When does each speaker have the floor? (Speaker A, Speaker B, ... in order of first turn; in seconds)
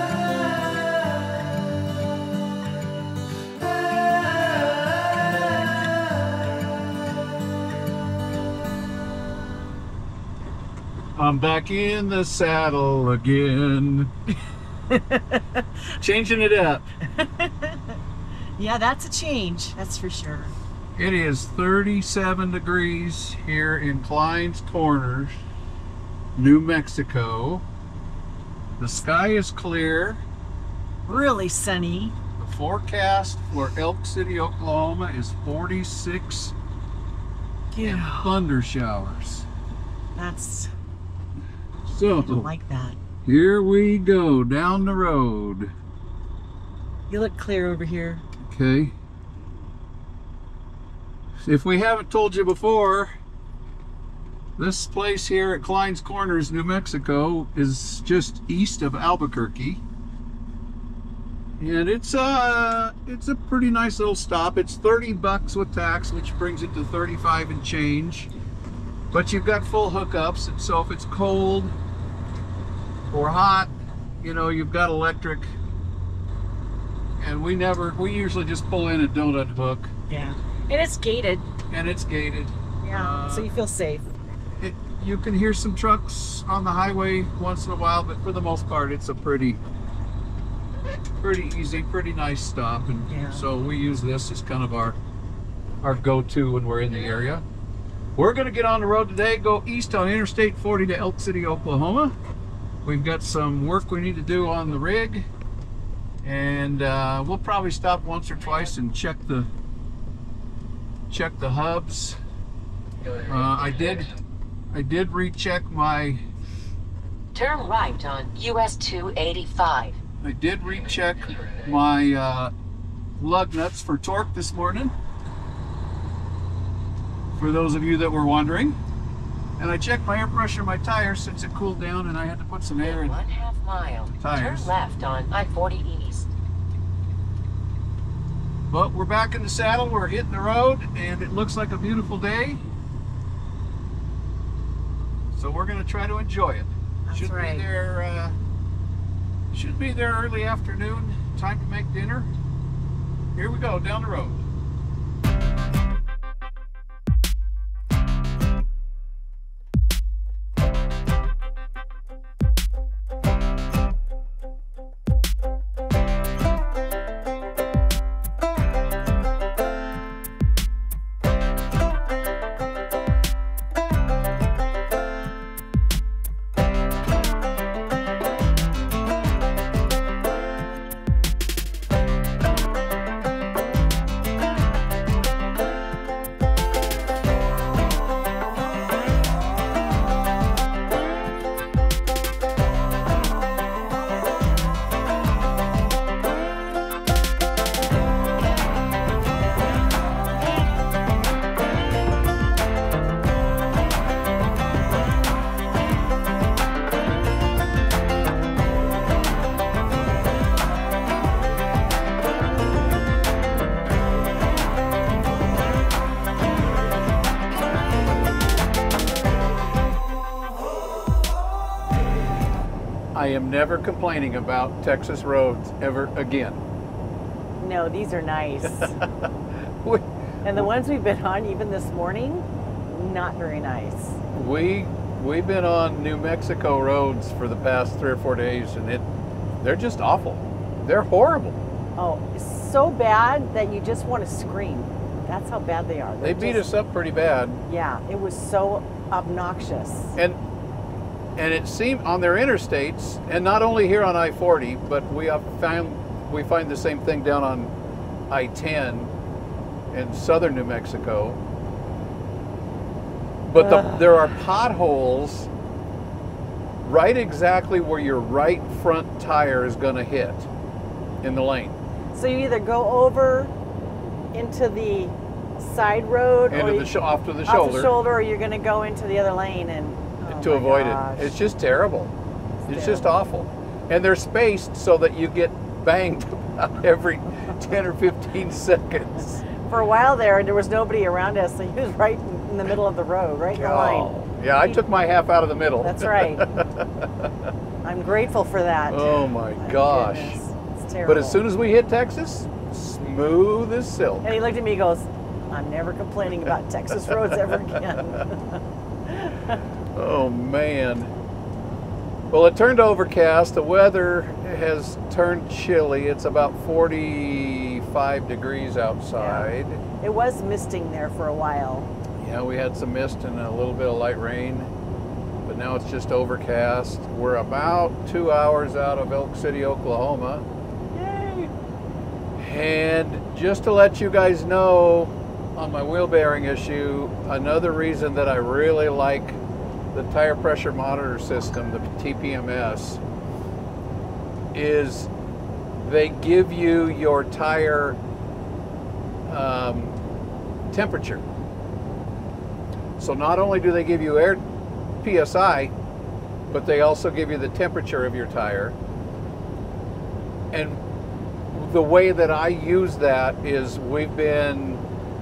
Speaker A: 11.2-14.1, 16.0-16.8, 21.0-25.3, 26.4-27.6, 28.8-30.2, 32.4-36.5, 37.8-39.5, 41.9-42.5, 43.2-45.7, 48.4-48.9, 51.4-53.1, 54.6-59.8, 61.6-68.3, 69.1-71.7, 73.1-75.5, 77.2-79.9, 81.7-83.5, 84.6-89.6, 91.2-95.0, 95.8-97.4, 98.2-102.1, 102.8-105.2, 106.2-109.5, 111.1-112.2, 113.3-114.1, 114.7-116.2, 120.2-122.5, 123.2-124.9, 127.3-128.8, 129.6-133.2, 134.2-134.7, 138.7-142.6, 145.3-148.3, 149.5-152.3, 153.3-154.4, 223.1-226.6, 229.8-230.7, 234.3-239.1, 239.6-241.6, 246.2-247.6, 251.4-257.7, 258.3-259.1, 259.9-261.4, 263.4-265.5, 266.8-270.5, 271.2-271.8, 276.5-277.9, 280.3-282.1, 282.7-289.4, 293.5-297.3, 298.9-300.4, 301.1-304.3, 309.9-311.1, 312.3-319.8, 322.2-324.7, 325.4-330.4, 332.4-339.4, 339.9-343.0, 344.5-345.1, 345.8-348.0, 349.2-350.0, 350.7-351.2, 353.0-354.4, 355.0-355.7, 356.5-358.8, 360.5-360.8, 361.5-364.8
Speaker B: 14.9-15.7, 17.0-18.0, 18.6-20.5, 31.1-32.1, 37.7-38.4, 40.1-40.7, 42.1-43.0, 47.1-48.3, 80.1-81.5, 82.8-84.0, 93.1-93.4, 147.1-147.7, 227.6-229.0, 230.4-234.2, 242.0-246.6, 247.7-250.2, 263.5-264.3, 272.1-273.5, 274.3-276.9, 277.4-281.3, 282.6-283.1, 289.5-294.8, 295.8-296.5, 297.8-301.4, 304.2-309.6, 319.2-321.9, 330.9-331.5
Speaker C: 117.3-120.0, 132.8-136.3